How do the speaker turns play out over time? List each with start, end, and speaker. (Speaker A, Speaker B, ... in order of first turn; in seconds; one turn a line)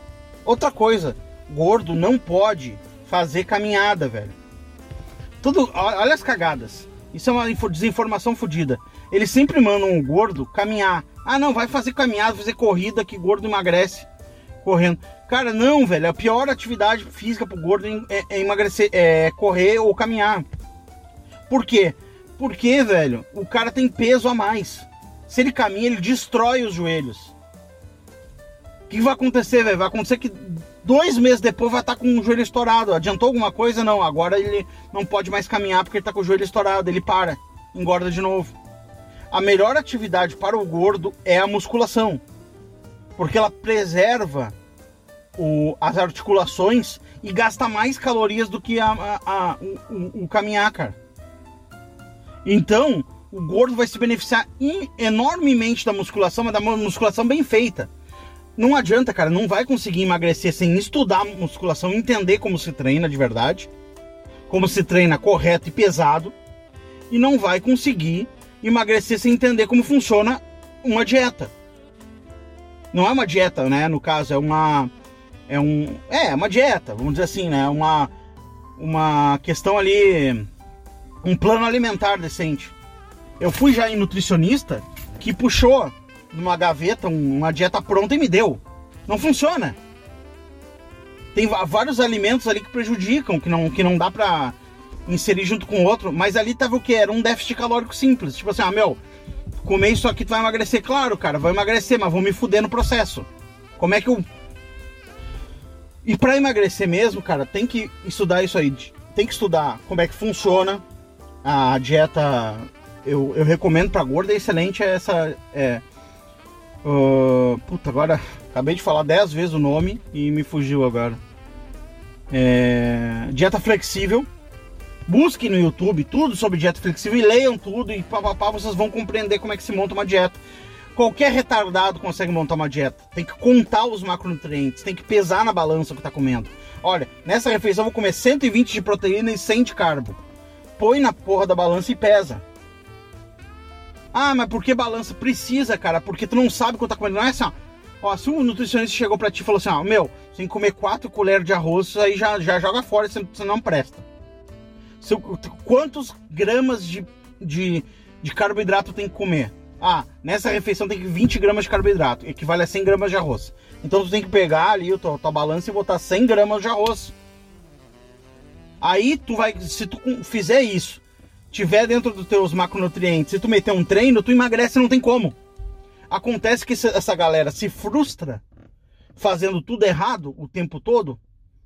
Speaker A: 0.4-4.3
Speaker A: 5.4-14.1
Speaker A: 14.6-20.4
Speaker A: 21.5-27.3
Speaker A: 28.9-38.5
Speaker A: 39.3-42.2
Speaker A: 43.2-44.5
Speaker A: 45.4-51.0
Speaker A: 52.4-57.9
Speaker A: 58.5-63.7
Speaker A: 64.5-66.3
Speaker A: 67.1-71.5
Speaker A: 72.9-74.9
Speaker A: 75.5-78.1
Speaker A: 78.8-80.5
Speaker A: 81.2-82.7
Speaker A: 83.4-89.8
Speaker A: 91.3-94.5
Speaker A: 95.1-99.0
Speaker A: 99.6-104.2
Speaker A: 106.0-110.8
Speaker A: 111.4-115.8
Speaker A: 116.8-121.2
Speaker A: 122.3-124.3
Speaker A: 125.1-130.4
Speaker A: 130.9-140.2
Speaker A: 140.8-142.4
Speaker A: 144.1-154.0
Speaker A: 155.0-167.1
Speaker A: 168.8-175.3
Speaker A: 176.1-178.4
Speaker A: 179.2-181.2